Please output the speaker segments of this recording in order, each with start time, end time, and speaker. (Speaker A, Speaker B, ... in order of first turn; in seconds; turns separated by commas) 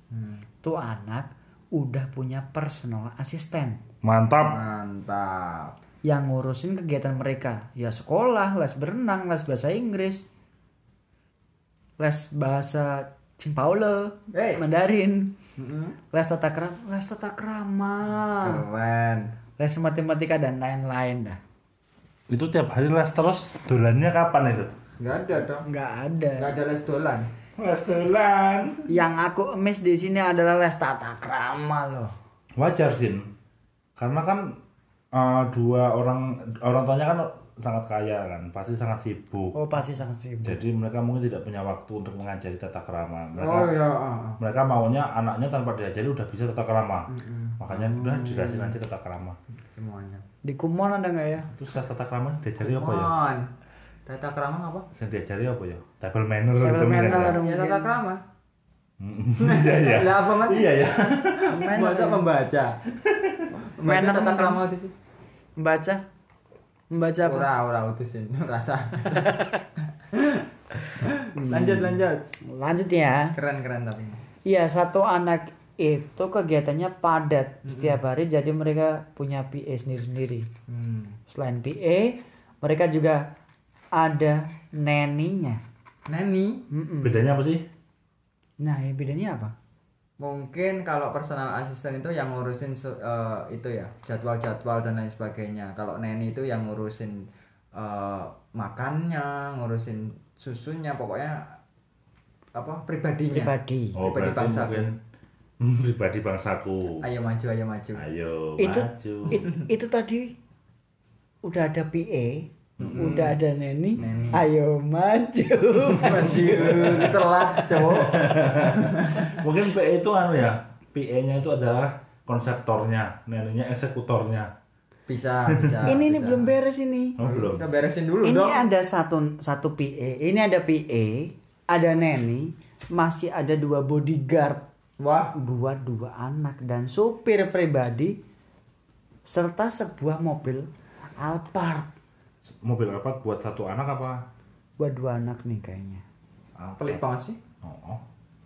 Speaker A: 0.1-0.5, Speaker B: 0.6-3.8, Speaker C: 4.0-4.6, Speaker A: 4.4-5.8, Speaker B: 6.0-10.3, Speaker B: 12.0-15.3, Speaker A: 14.3-14.6, Speaker A: 15.6-15.9, Speaker B: 16.1-18.6, Speaker A: 18.4-19.3, Speaker B: 19.6-21.4, Speaker C: 22.3-24.7, Speaker A: 25.0-25.6, Speaker B: 25.6-26.5, Speaker A: 26.4-27.3, Speaker C: 27.6-28.8, Speaker B: 28.9-32.1, Speaker C: 32.5-33.3, Speaker C: 34.0-34.6, Speaker C: 35.1-39.5, Speaker B: 39.5-40.6, Speaker C: 40.4-43.7, Speaker A: 43.4-44.4, Speaker C: 44.4-49.4, Speaker A: 47.1-48.7, Speaker A: 49.7-50.2, Speaker B: 50.4-51.5, Speaker C: 51.5-53.1, Speaker A: 52.6-53.5, Speaker A: 54.0-54.9, Speaker C: 54.9-57.4, Speaker B: 56.6-57.9, Speaker A: 57.4-58.2, Speaker C: 59.0-61.5, Speaker A: 59.4-62.8, Speaker B: 61.5-62.3, Speaker C: 63.0-63.5, Speaker A: 63.7-64.9, Speaker B: 63.8-64.6, Speaker B: 65.6-66.0, Speaker B: 66.9-67.5, Speaker A: 67.2-69.5, Speaker B: 69.2-69.6, Speaker A: 70.1-72.2, Speaker B: 70.8-73.3, Speaker A: 73.3-74.2, Speaker B: 74.4-80.5, Speaker A: 77.7-78.0, Speaker A: 80.7-81.2, Speaker B: 81.3-83.2, Speaker B: 83.9-85.6, Speaker A: 86.1-86.6, Speaker B: 86.7-87.2, Speaker C: 87.0-87.6, Speaker B: 88.6-89.5, Speaker A: 90.2-101.6, Speaker A: 102.5-104.9, Speaker B: 103.3-104.0, Speaker C: 103.9-105.0, Speaker C: 105.6-107.1, Speaker A: 107.0-108.0, Speaker C: 107.9-109.4, Speaker B: 108.6-110.3, Speaker B: 111.4-118.1, Speaker C: 112.8-113.2, Speaker A: 112.8-113.3, Speaker A: 114.0-114.4, Speaker C: 114.0-114.4, Speaker A: 115.9-119.4, Speaker C: 116.8-117.0, Speaker C: 118.0-124.5, Speaker A: 125.1-126.5, Speaker C: 125.5-125.9, Speaker B: 125.8-127.2, Speaker C: 127.2-127.6, Speaker A: 127.2-128.6, Speaker B: 128.2-134.6, Speaker A: 135.0-135.3, Speaker B: 135.3-138.2, Speaker B: 139.2-141.9, Speaker C: 142.4-144.2, Speaker B: 144.8-146.0, Speaker C: 146.6-147.0, Speaker A: 146.8-147.4, Speaker C: 147.6-148.0